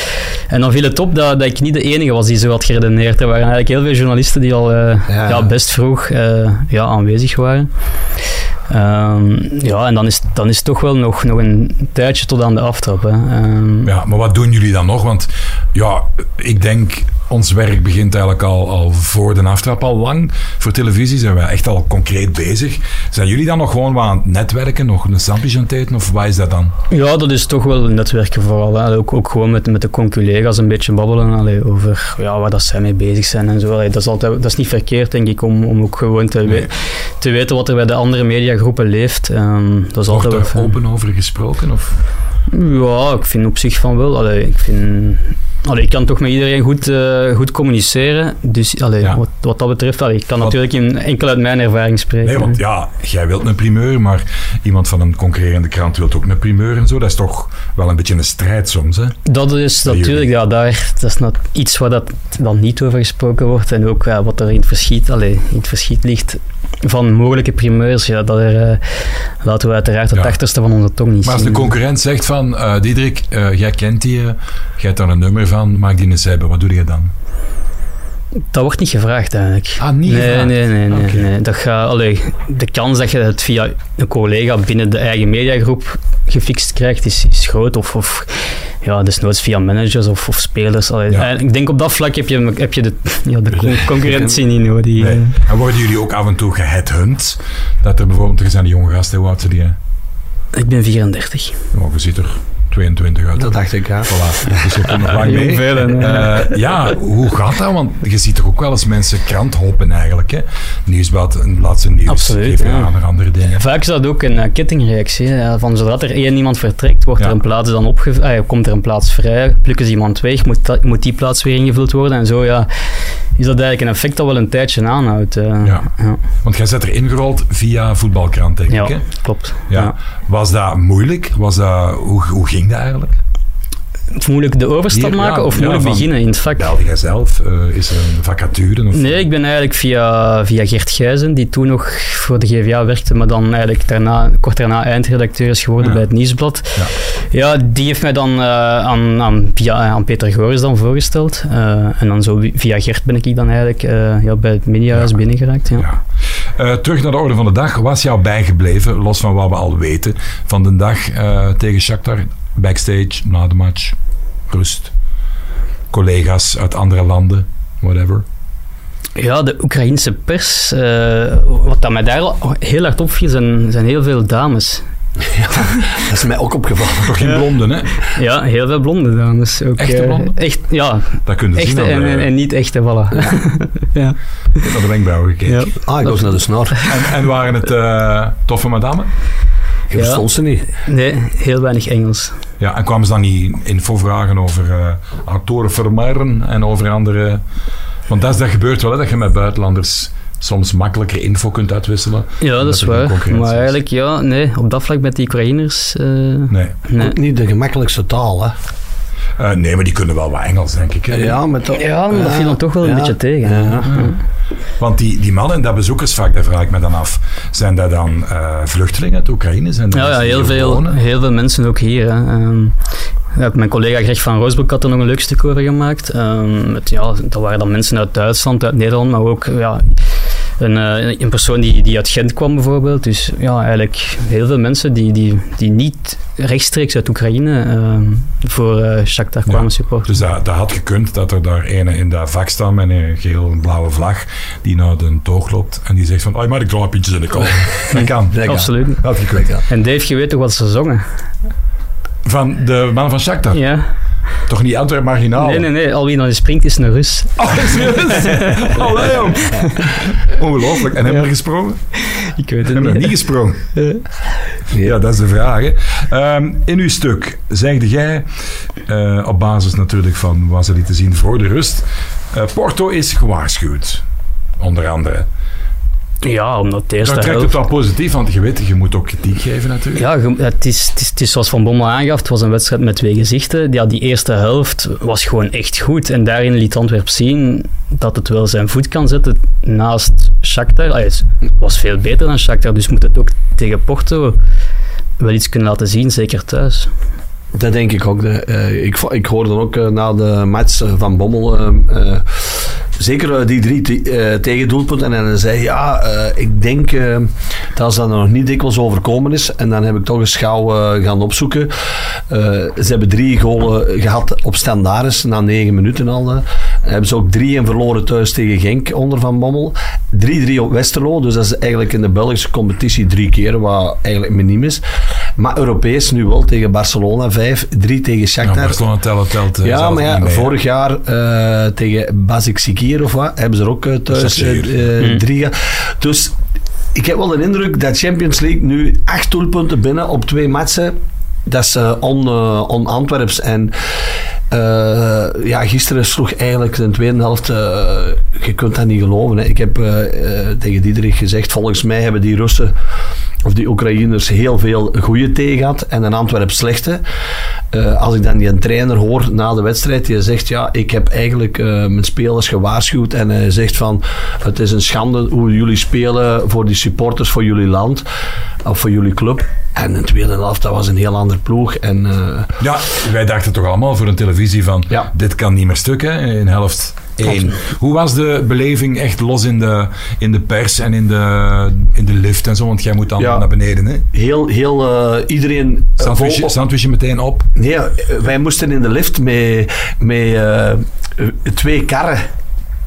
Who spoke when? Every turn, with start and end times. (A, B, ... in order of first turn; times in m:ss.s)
0:00.5-0:07.7 A
0:05.1-0:05.5 B
0:08.7-0:13.9 A
0:13.8-0:26.7 C
0:26.9-0:40.7 A
0:40.1-0:42.0 C
0:42.5-0:52.6 A
0:52.2-0:59.2 C
0:59.2-1:08.8 A
0:59.8-1:00.2 C
1:09.4-1:11.7 A
1:11.2-1:17.1 C
1:18.5-1:35.4 A
1:19.8-1:21.3 C
1:35.0-1:39.8 C
1:40.5-1:41.6 A
1:41.7-1:53.6 C
1:43.4-1:44.6 B
1:45.1-1:46.5 A
1:52.0-1:52.9 A
1:53.5-2:02.7 A
2:03.4-2:06.2 A
2:06.4-2:09.0 C
2:08.7-2:09.9 A
2:09.7-2:13.2 C
2:14.1-2:16.7 A
2:14.9-2:19.2 C
2:18.9-2:35.9 A
2:36.5-2:44.0 C
2:44.5-2:44.9 C
2:45.9-2:48.2 C
2:49.2-2:54.8 A
2:55.3-2:57.3 B
2:57.0-2:57.9 C
2:58.1-3:04.7 A
2:59.8-3:00.4 C
3:01.2-3:02.3 C
3:04.6-3:05.7 C
3:05.5-3:06.1 A
3:05.8-3:06.8 B
3:06.8-3:09.1 C
3:09.9-3:10.6 B
3:09.9-3:10.2 A
3:10.8-3:12.3 A
3:12.6-3:17.4 C
3:18.1-3:23.8 C
3:22.4-3:27.1 A
3:26.5-3:26.7 C
3:27.0-3:28.5 B
3:29.4-3:31.4 C
3:31.1-3:34.0 B
3:31.7-3:34.2 A
3:34.8-3:41.0 C
3:39.9-3:42.8 A
3:43.3-3:49.8 A
3:50.6-4:00.1 A
3:59.5-4:09.5 C
4:07.9-4:09.0 A
4:08.3-4:08.7 B
4:09.3-4:09.6 B
4:09.6-4:11.0 A
4:12.2-4:13.6 C
4:13.5-4:13.9 A
4:14.5-4:15.6 C
4:15.4-4:20.1 A
4:17.4-4:21.8 C
4:22.0-4:23.1 A
4:22.6-4:23.7 C
4:23.7-4:24.0 A
4:24.7-4:28.3 C
4:28.8-4:34.0 C
4:34.6-4:35.3 C
4:36.2-4:37.6 A
4:37.0-4:40.0 C
4:40.0-4:54.4 A
4:55.2-4:56.9 A
4:57.5-5:11.7 B
5:12.3-5:24.8 B
5:25.4-5:28.8 B
5:28.4-5:30.5 C
5:29.6-5:36.4 B
5:34.1-5:34.8 C
5:36.9-5:43.7 B
5:44.5-5:52.7 B
5:53.4-5:57.0 B
5:57.7-6:08.0 B
6:08.6-6:12.6 B
6:12.6-6:24.0 C
6:23.2-6:23.4 B
6:24.1-6:26.5 B
6:26.0-6:27.5 C
6:27.6-6:32.2 B